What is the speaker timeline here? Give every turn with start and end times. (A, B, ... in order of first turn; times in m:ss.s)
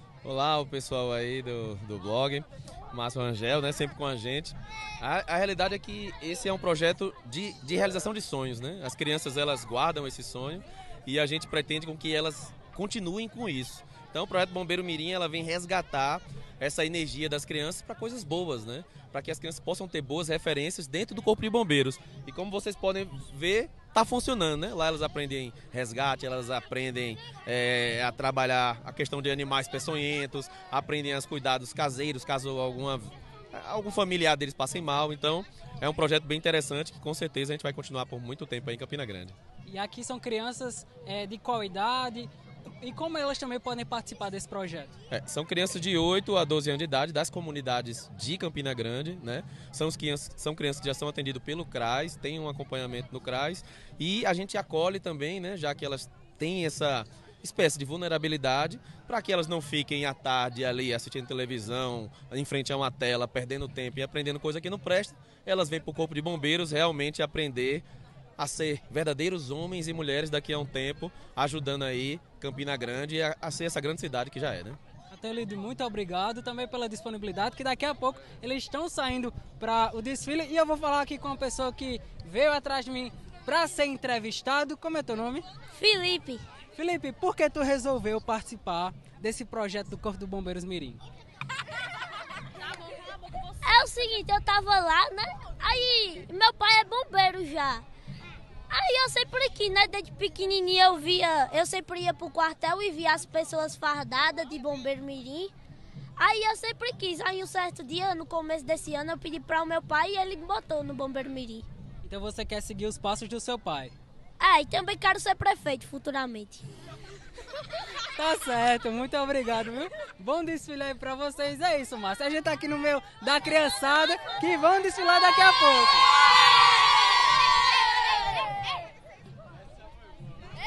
0:00.2-0:39.3 A
0:39.6-0:44.9 B
0:45.1-1:07.8 A
1:08.4-1:14.8 A
1:15.1-1:25.4 B
1:25.7-1:26.4 C
1:26.7-1:31.0 B
1:33.6-1:37.8 C
1:38.7-1:45.5 C
1:46.2-1:51.6 C
1:52.0-1:53.9 B
1:54.4-1:56.7 C
1:58.1-2:06.1 B